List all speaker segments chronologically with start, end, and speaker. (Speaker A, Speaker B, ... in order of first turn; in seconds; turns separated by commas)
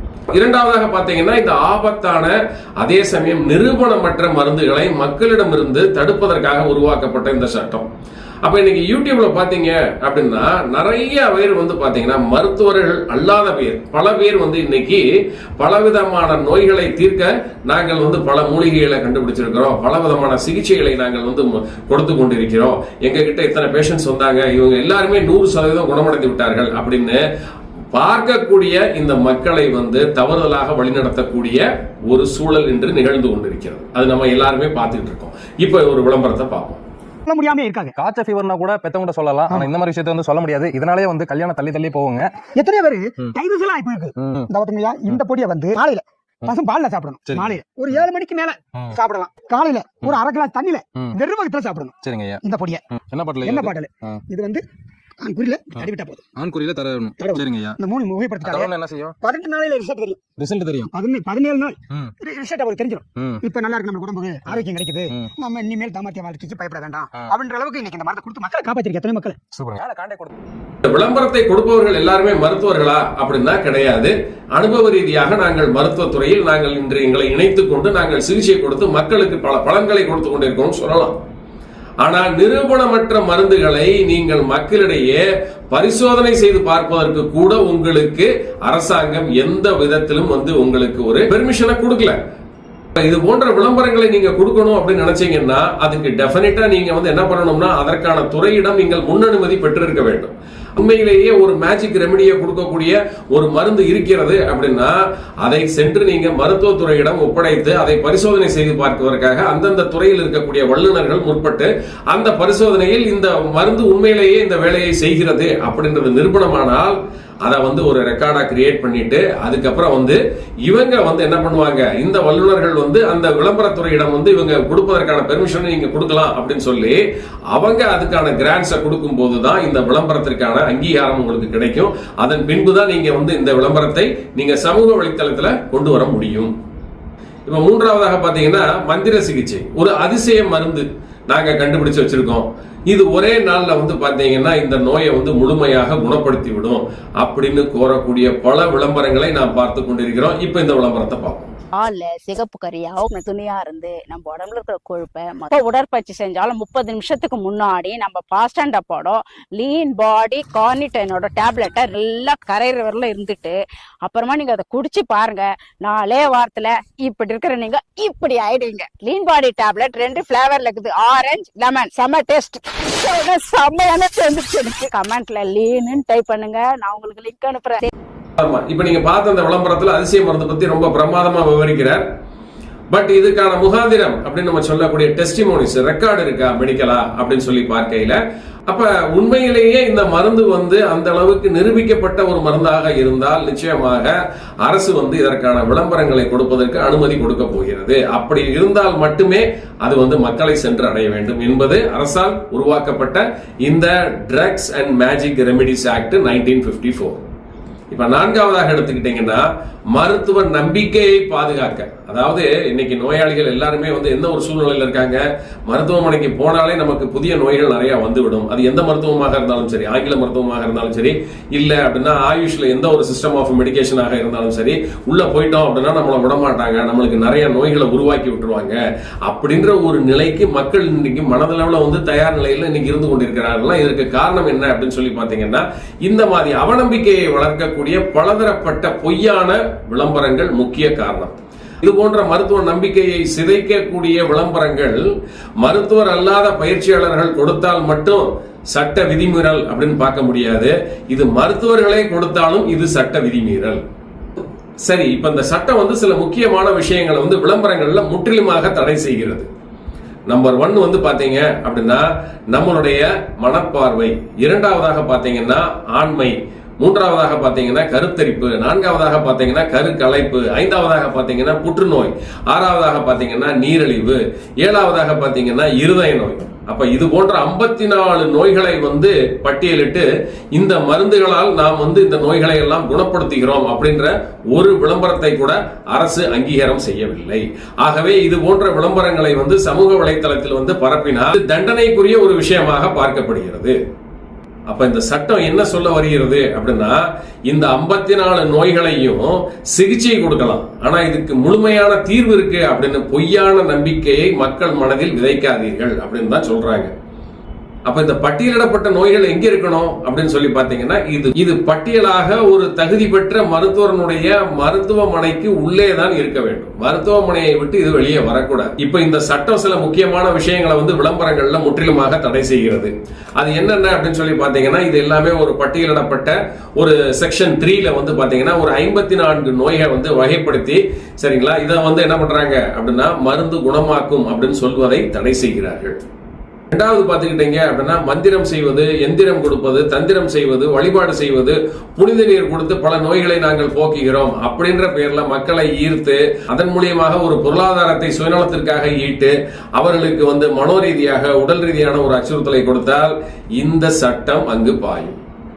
Speaker A: 0.3-7.9, Speaker A: 8.4-15.0, Speaker A: 15.6-27.2, Speaker A: 27.9-36.8, Speaker B: 37.3-38.0, Speaker C: 38.0-42.3, Speaker B: 42.6-52.9, Speaker C: 44.2-44.5, Speaker C: 47.3-48.0, Speaker C: 52.0-52.4, Speaker C: 52.9-54.2, Speaker B: 53.4-54.6, Speaker B: 55.2-56.3, Speaker C: 56.4-57.8, Speaker B: 57.2-60.2, Speaker C: 58.4-59.1, Speaker C: 60.4-60.9, Speaker B: 60.9-69.4, Speaker C: 63.2-63.4, Speaker C: 69.5-70.3, Speaker A: 70.8-81.2, Speaker A: 82.0-92.2, Speaker A: 93.0-127.0, Speaker A: 127.5-136.5, Speaker A: 137.5-151.5, Speaker D: 151.8-177.9, Speaker A: 178.4-182.1, Speaker A: 182.9-207.3, Speaker A: 207.9-245.0, Speaker A: 245.6-253.8, Speaker A: 254.8-259.5, Speaker A: 260.3-293.8, Speaker A: 294.7-306.9, Speaker A: 307.9-336.0, Speaker A: 336.7-355.2